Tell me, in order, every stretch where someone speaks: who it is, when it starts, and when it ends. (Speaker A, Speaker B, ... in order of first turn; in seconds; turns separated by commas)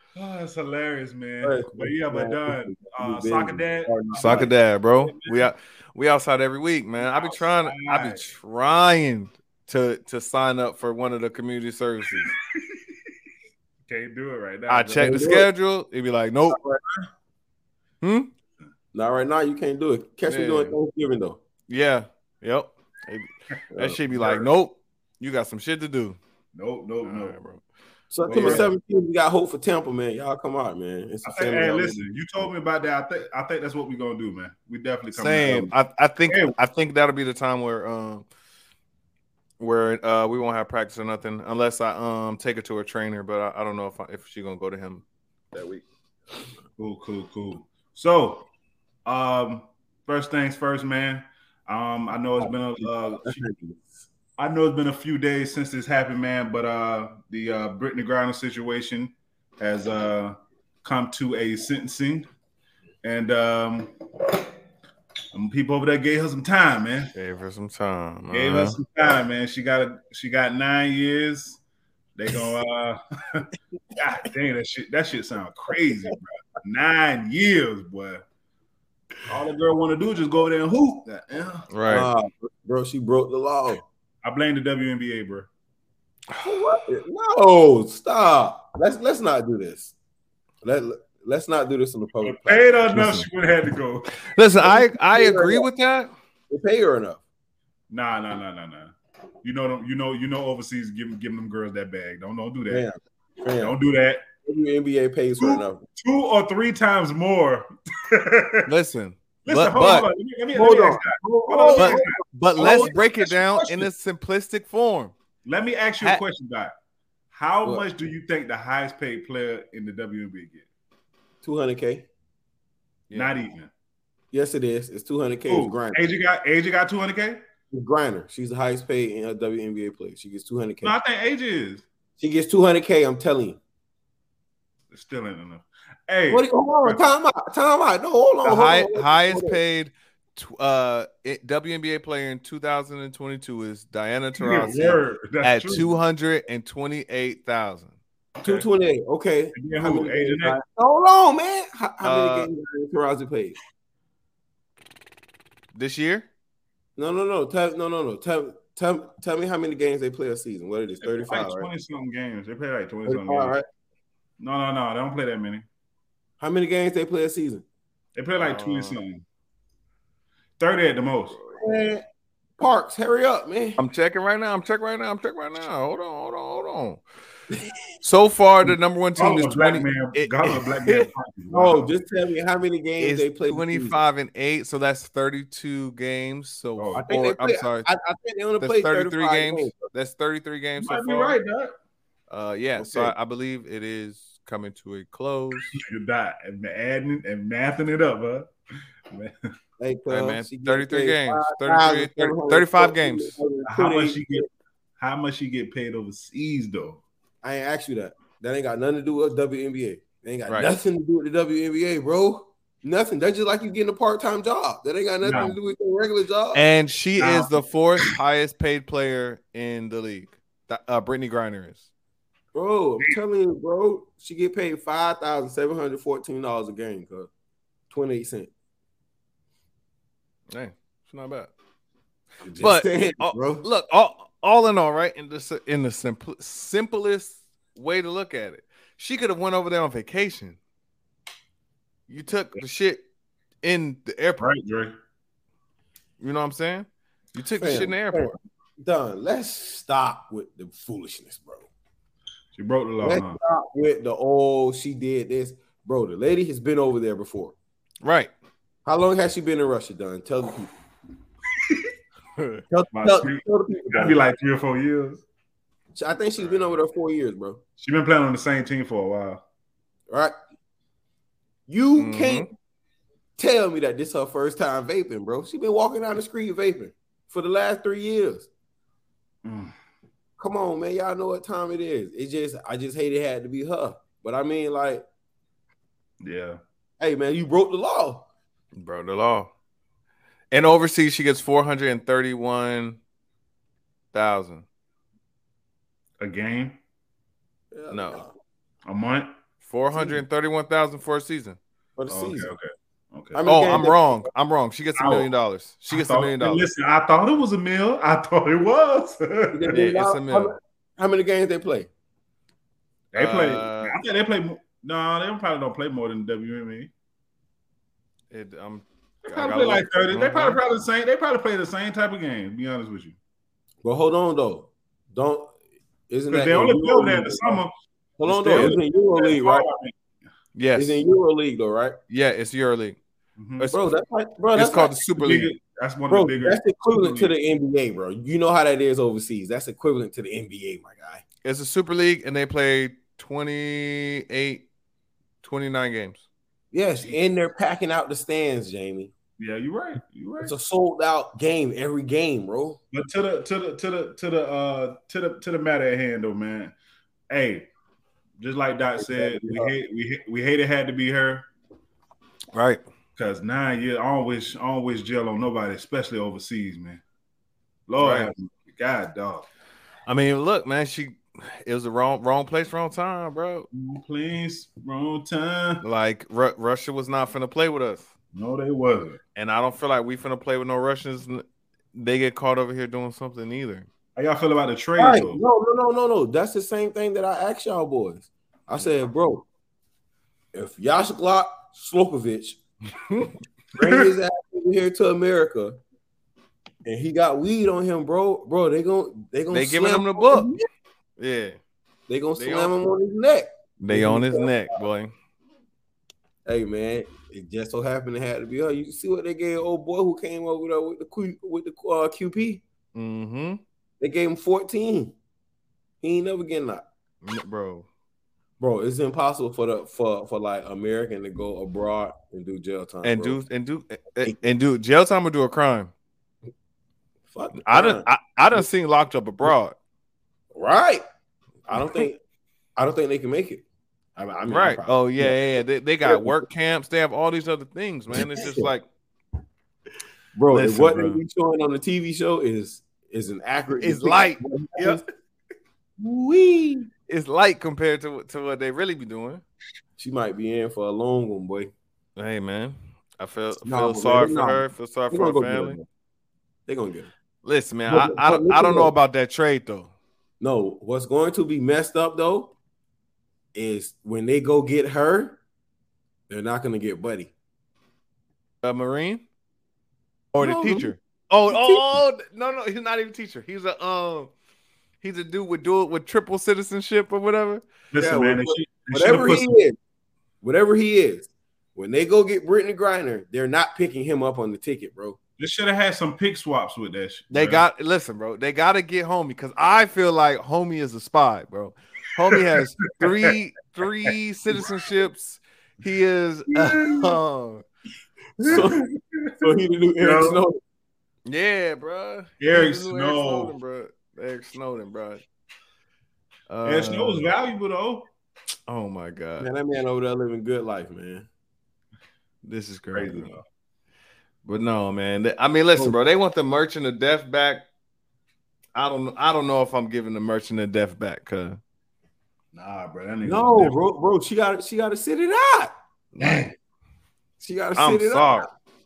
Speaker A: 0.1-4.5, Speaker B: 1.4-4.5, Speaker C: 4.2-12.3, Speaker A: 5.0-5.5, Speaker A: 7.0-8.2, Speaker A: 12.2-12.8, Speaker A: 13.9-15.4, Speaker C: 14.7-16.6, Speaker B: 15.0-15.5, Speaker B: 16.5-17.1, Speaker C: 18.0-18.3, Speaker B: 18.9-21.4, Speaker C: 20.3-20.8, Speaker C: 21.7-26.2, Speaker A: 24.1-24.5, Speaker A: 26.6-27.4, Speaker C: 27.0-27.6, Speaker B: 28.1-32.0, Speaker C: 28.3-28.7, Speaker A: 28.3-28.7, Speaker A: 31.2-35.7, Speaker C: 35.2-38.3, Speaker A: 36.3-36.5, Speaker C: 39.6-45.0, Speaker A: 46.8-48.5, Speaker A: 49.1-53.4, Speaker B: 52.4-54.0, Speaker A: 54.4-62.3, Speaker A: 63.0-63.9, Speaker A: 65.3-67.1, Speaker C: 67.2-68.8, Speaker A: 68.3-71.6, Speaker A: 72.2-78.2, Speaker A: 79.3-81.7, Speaker C: 81.7-82.1, Speaker B: 81.9-83.8, Speaker A: 84.2-85.5, Speaker C: 86.3-86.8, Speaker B: 86.4-89.9, Speaker B: 90.6-92.8, Speaker A: 92.2-94.1, Speaker C: 92.9-93.2, Speaker C: 94.3-96.1, Speaker B: 94.6-95.7, Speaker B: 96.5-97.2, Speaker A: 97.9-102.8, Speaker B: 102.7-103.8, Speaker A: 103.6-104.2, Speaker B: 104.5-105.8, Speaker A: 105.4-108.7, Speaker C: 108.7-110.1, Speaker A: 109.5-113.9, Speaker B: 110.5-112.9, Speaker C: 111.8-115.1, Speaker A: 115.5-116.7, Speaker A: 117.3-120.7, Speaker B: 121.4-122.1, Speaker C: 123.1-123.4, Speaker A: 123.1-123.7, Speaker B: 124.3-126.0, Speaker A: 125.5-127.4, Speaker B: 127.7-131.0, Speaker A: 130.8-131.8, Speaker B: 132.2-133.6, Speaker A: 134.9-137.0, Speaker B: 136.3-139.6, Speaker C: 138.4-147.9, Speaker A: 144.4-145.9, Speaker A: 148.4-148.7, Speaker B: 148.4-153.6, Speaker A: 149.5-150.6, Speaker C: 152.0-152.5, Speaker C: 155.8-156.3, Speaker B: 157.0-161.7, Speaker A: 161.0-163.6, Speaker B: 163.1-163.6, Speaker A: 164.4-165.7, Speaker B: 166.4-167.6, Speaker A: 168.2-169.2, Speaker C: 168.4-169.0, Speaker A: 170.6-171.4, Speaker B: 171.5-172.0, Speaker B: 172.6-173.8, Speaker C: 173.8-177.0, Speaker C: 178.0-181.1, Speaker A: 179.2-181.9, Speaker B: 181.5-184.0, Speaker C: 183.0-187.9, Speaker A: 186.8-187.0, Speaker B: 186.9-189.9, Speaker C: 188.6-191.4, Speaker A: 190.8-191.8, Speaker C: 192.3-195.8, Speaker B: 192.8-193.1, Speaker A: 195.7-198.5, Speaker A: 199.1-199.5, Speaker B: 199.8-204.5, Speaker C: 200.1-203.4, Speaker A: 203.7-204.5, Speaker A: 205.0-207.0, Speaker B: 207.4-216.6, Speaker A: 215.2-215.5, Speaker C: 216.5-221.9, Speaker A: 217.2-217.6, Speaker B: 222.5-227.3, Speaker B: 227.9-228.5, Speaker C: 230.5-231.5, Speaker B: 232.4-233.7, Speaker C: 232.6-240.6, Speaker C: 242.1-243.0, Speaker C: 243.6-244.5, Speaker A: 244.4-245.0, Speaker C: 246.2-248.4, Speaker B: 247.6-251.7, Speaker A: 252.6-253.4, Speaker B: 253.0-257.6, Speaker C: 258.0-258.3, Speaker B: 258.9-260.8, Speaker C: 262.4-262.6, Speaker B: 262.7-264.2, Speaker A: 262.9-265.2, Speaker B: 265.9-267.6, Speaker A: 267.8-269.4, Speaker B: 271.7-272.5, Speaker C: 272.0-272.5, Speaker B: 273.4-278.5, Speaker A: 279.4-279.7, Speaker B: 280.4-285.1, Speaker A: 286.2-286.6, Speaker B: 287.0-288.3, Speaker C: 288.8-289.5, Speaker C: 290.5-293.0, Speaker C: 294.1-294.6, Speaker A: 296.2-296.8, Speaker B: 297.7-298.3, Speaker C: 297.9-298.2, Speaker A: 298.9-299.3, Speaker C: 299.6-301.6, Speaker B: 302.0-302.5, Speaker A: 302.1-303.4, Speaker B: 303.3-304.3, Speaker C: 303.4-306.6, Speaker A: 305.0-305.3, Speaker A: 305.9-309.8, Speaker B: 309.5-311.9, Speaker C: 309.7-310.5, Speaker A: 313.1-316.9, Speaker C: 313.2-314.0, Speaker C: 318.3-320.6, Speaker A: 319.3-323.2, Speaker B: 323.8-325.5, Speaker B: 326.1-327.6, Speaker A: 326.3-327.7, Speaker B: 328.2-329.7, Speaker A: 328.2-329.9, Speaker C: 330.6-331.0, Speaker B: 330.8-332.0, Speaker C: 332.1-333.0, Speaker A: 333.4-333.7, Speaker C: 333.6-333.9, Speaker B: 333.7-334.9, Speaker C: 334.6-335.5, Speaker A: 335.2-337.3, Speaker B: 336.1-341.2, Speaker C: 341.4-344.6, Speaker C: 345.4-346.2, Speaker B: 346.7-349.1, Speaker A: 349.4-350.5, Speaker B: 350.4-352.8, Speaker A: 352.9-356.7, Speaker A: 357.3-357.7, Speaker A: 358.4-361.5, Speaker B: 359.0-359.7, Speaker C: 362.5-362.8, Speaker A: 363.2-367.0, Speaker A: 367.9-369.5, Speaker C: 368.0-368.3, Speaker C: 370.1-373.7, Speaker A: 373.7-375.8, Speaker C: 375.8-378.1, Speaker A: 378.3-379.2, Speaker C: 379.4-381.4, Speaker C: 381.9-383.9, Speaker A: 384.2-385.4, Speaker B: 385.0-389.5, Speaker B: 390.5-392.6, Speaker B: 393.8-395.8, Speaker B: 396.9-400.6, Speaker C: 399.5-400.5, Speaker C: 401.2-401.6, Speaker B: 402.1-404.8, Speaker C: 402.4-402.7, Speaker C: 403.8-405.1, Speaker B: 406.5-412.6, Speaker C: 412.9-413.6, Speaker B: 414.0-415.1, Speaker B: 416.0-416.9, Speaker C: 417.2-417.9, Speaker B: 418.6-423.4, Speaker C: 423.0-425.9, Speaker B: 427.3-428.6, Speaker C: 427.6-429.8, Speaker B: 430.6-431.0, Speaker B: 431.7-432.2, Speaker B: 432.8-433.6, Speaker B: 434.2-435.4, Speaker C: 434.5-438.8, Speaker B: 436.1-436.4, Speaker B: 438.1-438.7, Speaker B: 440.4-445.0, Speaker C: 440.5-441.2, Speaker C: 443.8-445.0, Speaker B: 446.0-446.9, Speaker C: 447.1-449.4, Speaker B: 450.0-451.7, Speaker C: 452.2-455.8, Speaker B: 453.6-455.9, Speaker B: 456.7-457.1, Speaker C: 457.4-459.9, Speaker B: 457.9-458.9, Speaker B: 460.4-462.5, Speaker B: 463.6-465.4, Speaker B: 466.3-467.3, Speaker C: 468.6-469.2, Speaker C: 470.3-474.3, Speaker B: 470.4-470.9, Speaker B: 471.5-472.0, Speaker C: 475.0-477.6, Speaker A: 477.9-479.5, Speaker B: 478.0-479.8, Speaker B: 480.4-485.2, Speaker A: 485.4-487.7, Speaker C: 487.3-497.6, Speaker A: 492.3-493.3, Speaker A: 496.5-497.1, Speaker B: 498.4-498.8, Speaker A: 498.5-499.5, Speaker B: 499.4-500.6, Speaker A: 500.0-500.4, Speaker C: 501.3-505.2, Speaker A: 502.4-503.6, Speaker C: 506.5-507.2, Speaker A: 506.6-508.1, Speaker C: 508.7-509.5, Speaker B: 509.4-511.3, Speaker C: 512.4-513.4, Speaker A: 512.9-513.4, Speaker C: 514.5-517.6, Speaker C: 518.8-521.6, Speaker A: 522.5-523.8, Speaker B: 523.2-525.7, Speaker C: 526.2-526.5, Speaker A: 526.2-526.5, Speaker B: 527.4-528.5, Speaker C: 527.8-528.5